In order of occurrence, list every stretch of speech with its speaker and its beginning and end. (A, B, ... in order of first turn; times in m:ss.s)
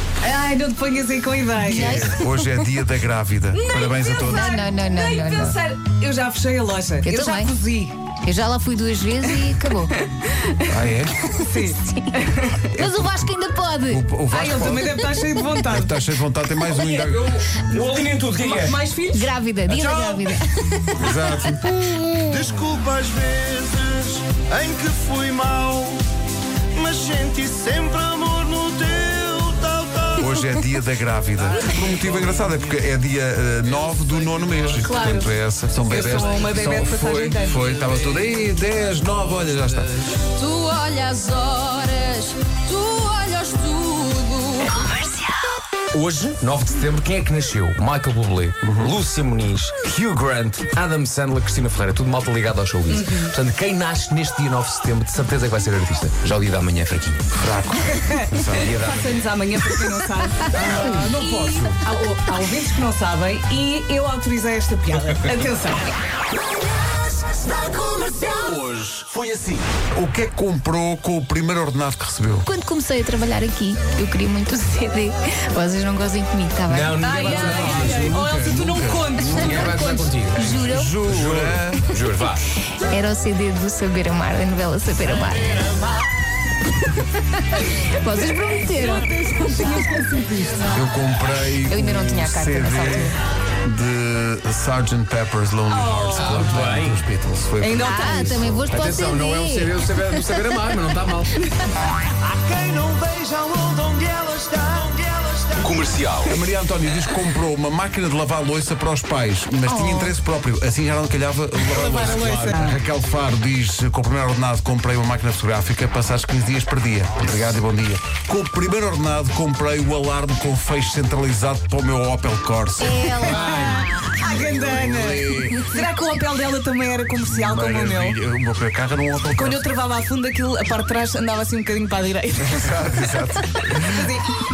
0:00.2-0:02.2 A
0:01.6-0:04.5 B
0:01.7-0:02.2 C
0:03.5-0:08.0 A
0:04.3-0:05.6 C
0:07.0-0:07.5 C
0:08.2-0:09.9 C
0:09.2-0:10.6 A
0:10.7-0:11.2 B
0:11.3-0:12.7 A
0:11.4-0:12.2 C
0:12.8-0:14.0 C
0:12.8-0:13.3 B
0:13.9-0:15.0 B
0:14.3-0:16.0 A
0:15.6-0:17.4 B
0:16.7-0:18.8 D
0:18.3-0:19.3 A
0:19.1-0:22.5 C
0:21.0-0:21.6 B
0:22.3-0:26.0 E
0:26.7-0:30.4 E
0:30.2-0:40.1 B
0:34.8-0:35.3 A
0:35.9-0:37.9 A
0:40.3-0:44.5 F
0:45.9-0:57.3 D
0:48.6-0:49.0 B
0:52.9-0:53.3 A
0:57.4-0:58.8 B
0:58.0-1:05.8 A
0:58.5-0:59.2 D
1:00.5-1:01.8 B
1:08.2-1:09.6 D
1:09.9-1:12.5 B
1:12.4-1:17.2 C
1:16.7-1:18.1 D
1:17.0-1:19.7 A
1:17.0-1:19.8 B
1:19.2-1:21.0 C
1:19.3-1:20.5 D
1:20.4-1:21.9 B
1:21.1-1:22.4 D
1:22.9-1:25.8 C
1:27.0-1:30.0 C
1:28.7-1:30.8 A
1:30.7-1:38.6 B
1:31.7-1:33.2 C
1:35.7-1:36.7 A
1:36.2-1:37.0 D
1:37.6-1:38.5 A
1:37.8-1:40.2 C
1:38.7-1:41.4 D
1:42.2-1:46.1 E
1:45.6-1:46.3 D
1:46.2-2:05.6 B
1:49.6-1:50.2 C
1:51.7-1:52.8 A
1:52.0-1:52.3 D
2:02.8-2:04.2 C
2:03.2-2:08.2 A
2:07.2-2:09.6 B
2:09.3-2:13.0 A
2:12.4-2:14.1 B
2:13.9-2:14.3 A